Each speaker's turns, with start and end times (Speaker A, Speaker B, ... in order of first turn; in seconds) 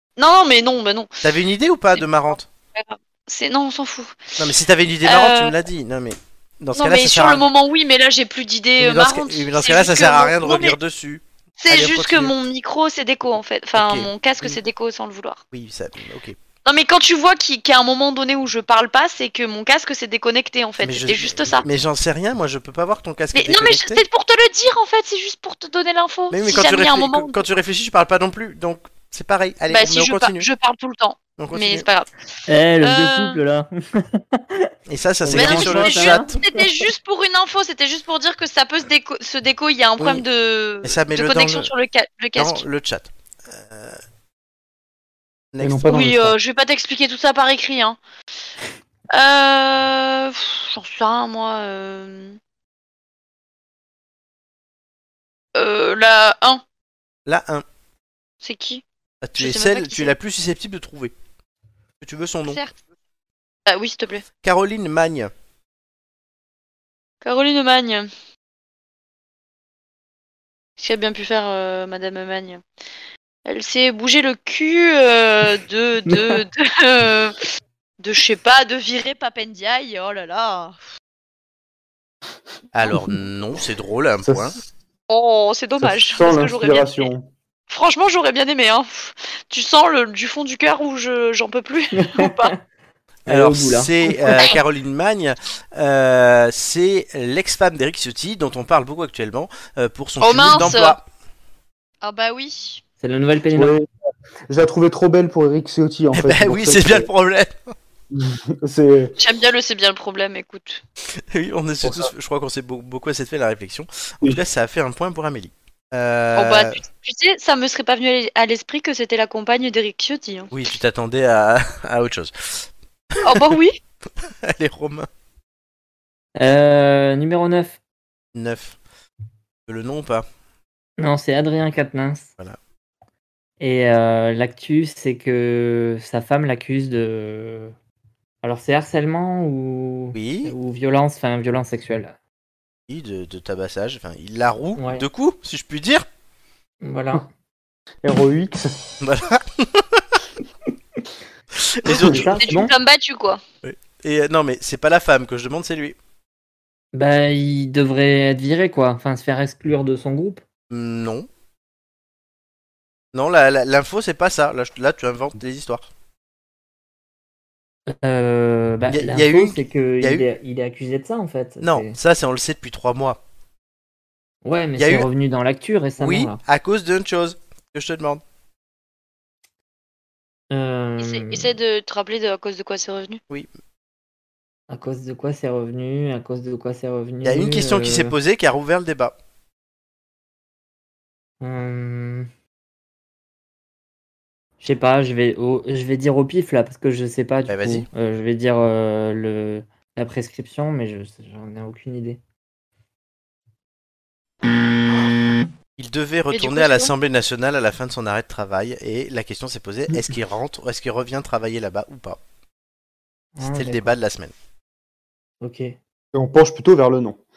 Speaker A: 0.2-1.2, 2.7-4.3, 5.0-5.5, 6.8-10.8, 11.6-15.4, 16.6-21.6, 23.3-27.4, 29.7-32.1, 32.8-33.4, 35.3-42.6, 45.9-48.0, 49.1-52.4, 55.5-56.6, 58.4-58.8, 59.4-60.1, 62.5-62.7, 63.7-64.2, 67.2-68.1, 70.8-72.6, 73.4-77.4, 78.0-80.8, 85.1-87.1, 87.7-92.5, 100.2-101.0, 102.0-102.8, 109.2-110.8, 116.4-120.5, 123.2-123.8, 152.1-153.4, 181.0-183.2, 206.3-206.9
Speaker B: 1.2-2.5, 4.4-7.5, 8.8-12.3, 13.8-14.6, 15.5-16.4, 20.8-24.0, 26.3-30.5, 31.4-31.9, 34.9-36.4, 40.0-40.2, 40.8-41.7, 42.4-44.0, 45.5-45.9, 57.3-57.6, 59.2-61.1, 62.0-62.6, 64.4-65.3, 82.7-84.6, 93.3-101.0, 106.1-107.7, 111.1-116.8, 120.5-123.5, 124.2-125.1, 128.3-128.8, 129.7-130.3, 140.1-140.6, 142.9-146.1, 149.0-150.2, 151.5-152.4, 153.6-156.0, 160.7-161.3, 163.1-165.9, 168.9-170.3, 171.6-173.2, 174.8-175.1, 176.0-178.2, 187.2-189.1, 197.5-197.9, 205.8-212.2, 213.4-214.3
Speaker C: 32.5-34.7, 35.2-36.6, 76.0-76.4, 92.0-92.6, 93.3-94.3, 103.0-103.8, 126.4-127.8, 131.0-132.3, 133.6-137.7, 138.4-142.2, 144.8-145.1, 146.8-147.3, 152.1-152.7, 156.9-160.4, 167.9-172.0, 174.4-176.4, 180.5-181.5, 184.7-188.2, 191.4-192.3, 194.6-202.2, 213.4-213.9, 215.4-215.8
Speaker D: 45.6-46.3, 84.3-84.5, 85.8-87.3, 103.5-103.9, 104.5-107.1, 108.1-109.1, 111.8-112.1, 148.0-148.7, 151.9-152.3, 216.1-217.2